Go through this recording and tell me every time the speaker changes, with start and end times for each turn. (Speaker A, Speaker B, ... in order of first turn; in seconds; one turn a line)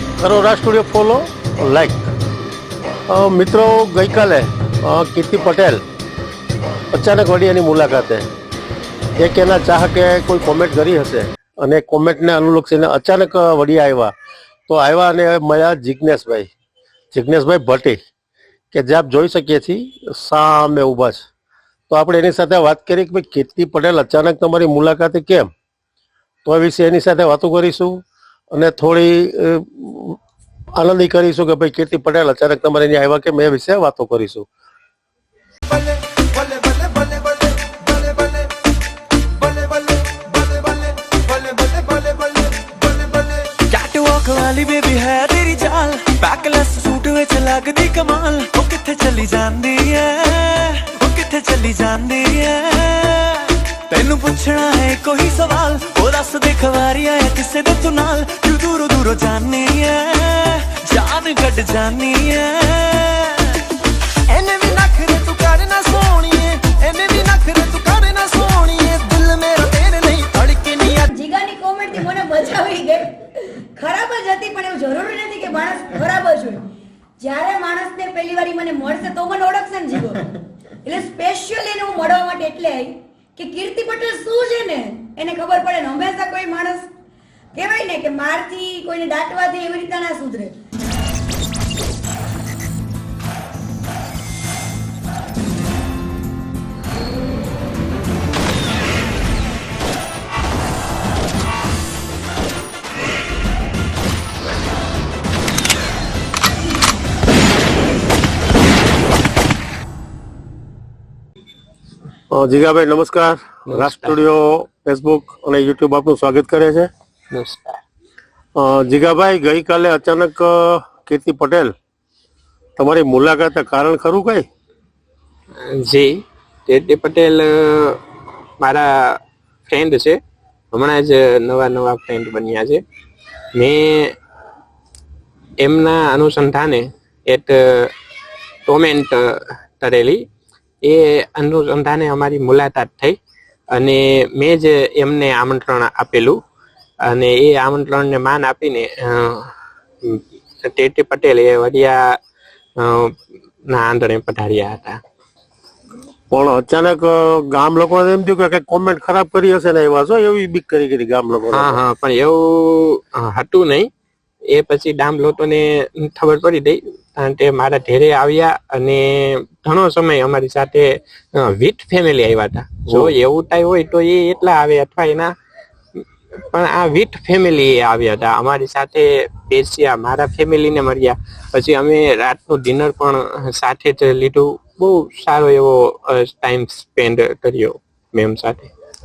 Speaker A: 0.2-2.1
Speaker A: 3.1-5.8
Speaker A: 6.9-8.3
Speaker A: 9.2-14.1
Speaker A: 14.7-16.5
Speaker A: 17.1-18.0
Speaker A: 18.7-21.3
Speaker A: 21.9-25.5
Speaker A: 26.4-28.0
Speaker A: 28.5-30.2
Speaker A: 30.8-34.5
Speaker B: 43.5-63.6
Speaker B: 64.3-71.0
Speaker C: 71.1-76.7
Speaker C: 77.2-86.9
Speaker C: 87.5-90.5
Speaker A: 112.3-116.9
Speaker D: 113.7-114.2
Speaker D: 117.3-117.8
Speaker A: 118.5-121.7
Speaker A: 122.8-124.5
Speaker D: 125.6-128.0
Speaker D: 128.6-130.2
Speaker D: 130.7-132.8
Speaker D: 133.5-134.2
Speaker D: 135.6-137.9
Speaker D: 138.7-140.2
Speaker D: 140.8-143.2
Speaker D: 143.7-146.4
Speaker D: 147.1-149.5
Speaker D: 150.0-152.2
Speaker D: 152.8-153.2
Speaker D: 153.7-155.0
Speaker A: 156.3-161.8
Speaker D: 161.5-163.9
Speaker D: 164.5-175.3
Speaker A: 172.9-173.1
Speaker D: 176.5-188.7